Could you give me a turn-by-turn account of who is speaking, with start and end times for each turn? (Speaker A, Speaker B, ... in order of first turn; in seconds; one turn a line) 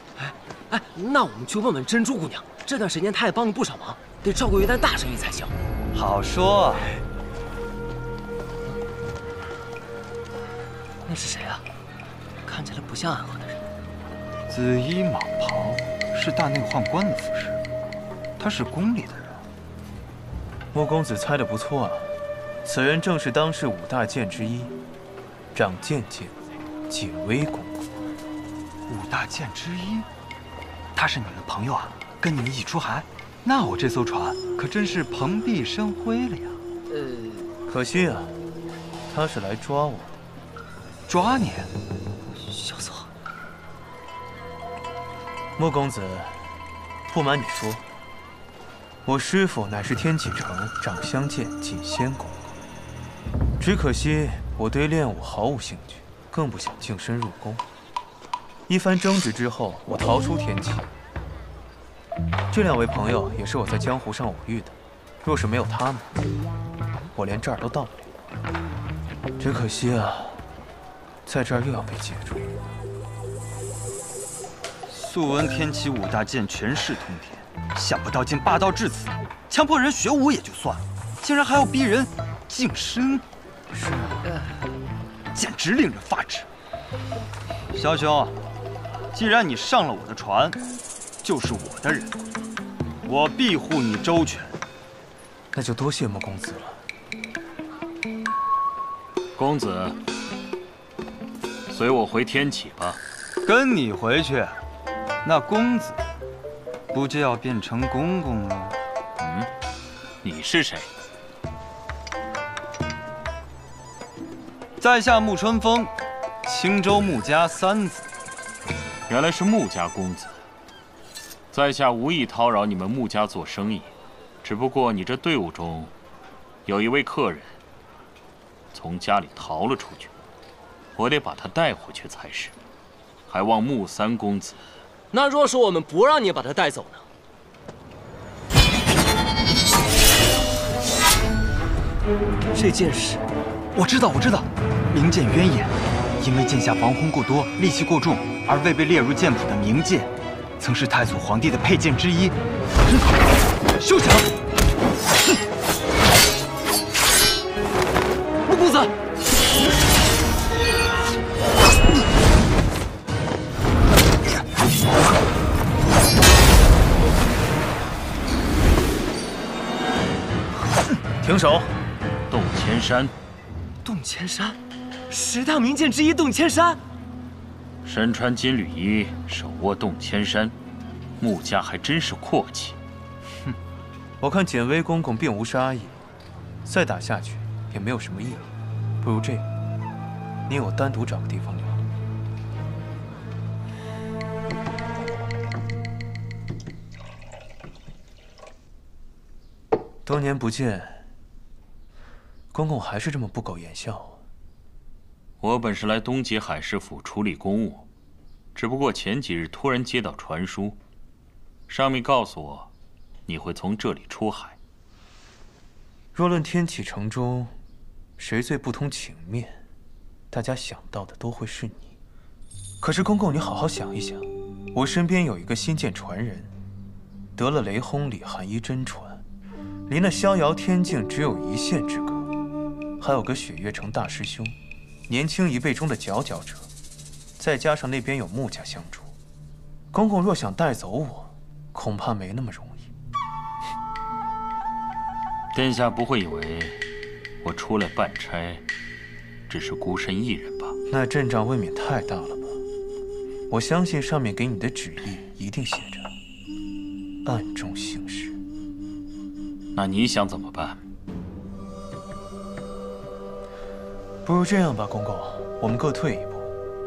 Speaker A: 0.2-5.5
Speaker B: 5.9-6.8
Speaker A: 11.1-11.6
Speaker A: 12.4-13.6
Speaker B: 14.5-17.6
Speaker B: 18.4-19.4
Speaker C: 20.7-22.1
Speaker C: 22.6-24.8
Speaker C: 25.5-27.8
Speaker B: 28.9-30.1
Speaker B: 30.9-36.6
Speaker A: 36.9-37.5
Speaker C: 37.7-38.4
Speaker C: 39.1-40.1
Speaker B: 41.1-41.7
Speaker A: 42.3-43.1
Speaker C: 45.6-46.5
Speaker C: 47.1-47.8
Speaker C: 49.0-52.4
Speaker C: 53.6-57.6
Speaker C: 58.7-60.9
Speaker C: 62.5-66.1
Speaker C: 67.1-68.0
Speaker C: 69.4-70.4
Speaker C: 71.3-72.5
Speaker B: 74.9-83.2
Speaker C: 83.7-84.2
Speaker B: 85.3-86.5
Speaker B: 87.7-88.3
Speaker B: 89.1-90.6
Speaker B: 91.2-92.2
Speaker B: 93.0-94.6
Speaker C: 95.5-96.8
Speaker D: 99.3-100.0
Speaker D: 101.7-103.0
Speaker B: 103.5-104.6
Speaker B: 105.2-106.0
Speaker B: 106.9-108.8
Speaker D: 109.2-109.5
Speaker D: 110.2-110.9
Speaker B: 114.8-115.9
Speaker B: 116.4-118.1
Speaker D: 119.1-120.3
Speaker D: 121.5-123.9
Speaker D: 124.4-125.9
Speaker D: 126.7-127.5
Speaker D: 128.7-130.1
Speaker D: 131.0-132.5
Speaker D: 133.3-134.6
Speaker A: 135.1-137.1
Speaker A: 142.5-143.3
Speaker B: 143.7-152.4
Speaker A: 153.8-154.3
Speaker A: 158.4-158.9
Speaker C: 171.2-171.7
Speaker D: 172.3-173.1
Speaker A: 173.8-174.6
Speaker A: 175.1-176.8
Speaker D: 177.8-180.6
Speaker D: 181.2-182.8
Speaker C: 184.2-186.0
Speaker C: 186.7-188.5
Speaker C: 189.0-189.5
Speaker C: 190.5-191.8
Speaker C: 200.1-201.0
Speaker C: 202.5-204.2
Speaker D: 205.4-207.9
Speaker D: 208.6-210.8
Speaker D: 211.7-212.7
Speaker D: 213.3-214.6
Speaker C: 216.1-217.5
Speaker C: 218.2-219.6
Speaker C: 220.3-221.9
Speaker C: 222.8-226.5
Speaker C: 227.4-229.2
Speaker C: 229.9-232.3
Speaker C: 233.0-234.6
Speaker C: 235.1-236.7
Speaker C: 237.4-239.1
Speaker C: 239.9-242.9
Speaker D: 245.5-246.8
Speaker D: 247.4-248.6
Speaker D: 249.5-250.8
Speaker C: 250.9-252.6
Speaker C: 253.5-256.1
Speaker C: 257.2-258.4
Speaker D: 259.8-260.8
Speaker C: 264.2-266.5